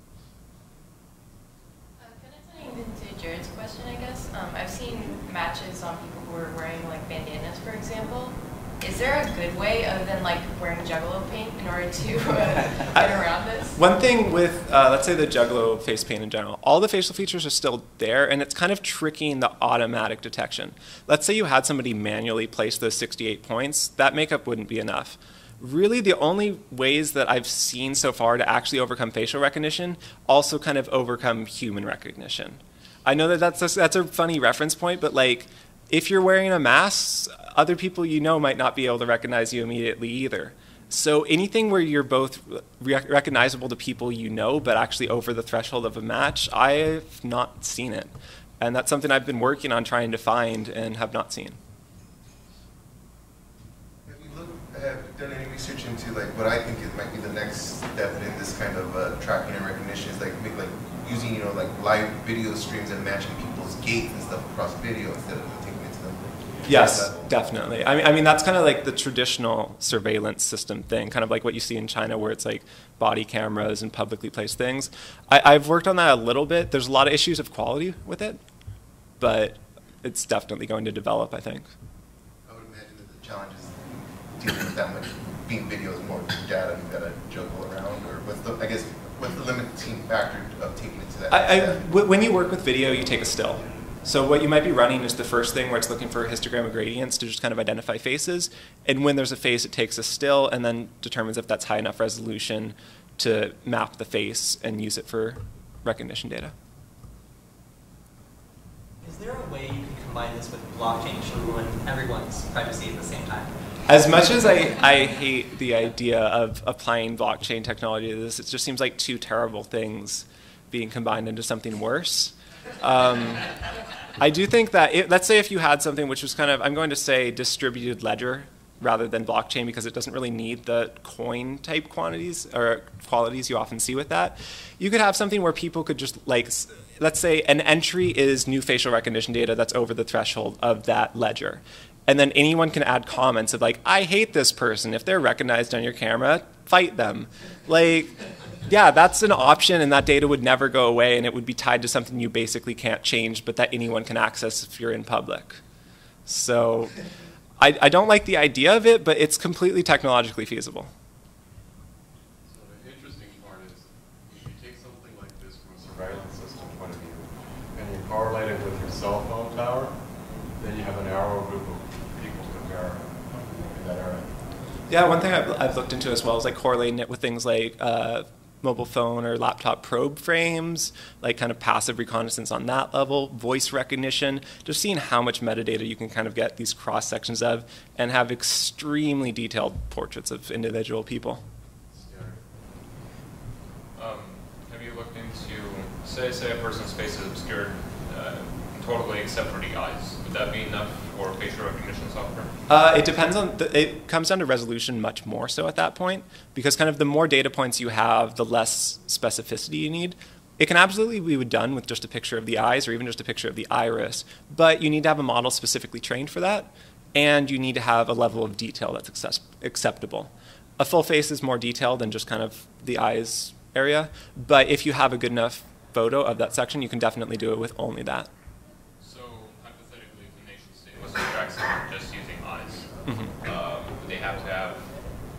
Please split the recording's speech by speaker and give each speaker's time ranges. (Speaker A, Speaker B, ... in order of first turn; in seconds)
Speaker A: 2.0-13.8
Speaker B: 12.9-13.2, 13.7-51.6, 66.7-78.4, 79.2-81.7, 91.3-106.5, 113.9-123.5, 124.2-155.6, 156.3-157.0, 157.6-160.9, 174.9-191.4, 202.7-228.3, 233.1-233.3
Speaker C: 54.0-67.3, 82.5-91.8
Speaker D: 109.0-114.7
Speaker E: 162.5-170.0, 170.6-174.3, 191.9-192.4
Speaker F: 193.9-202.5, 229.0-234.9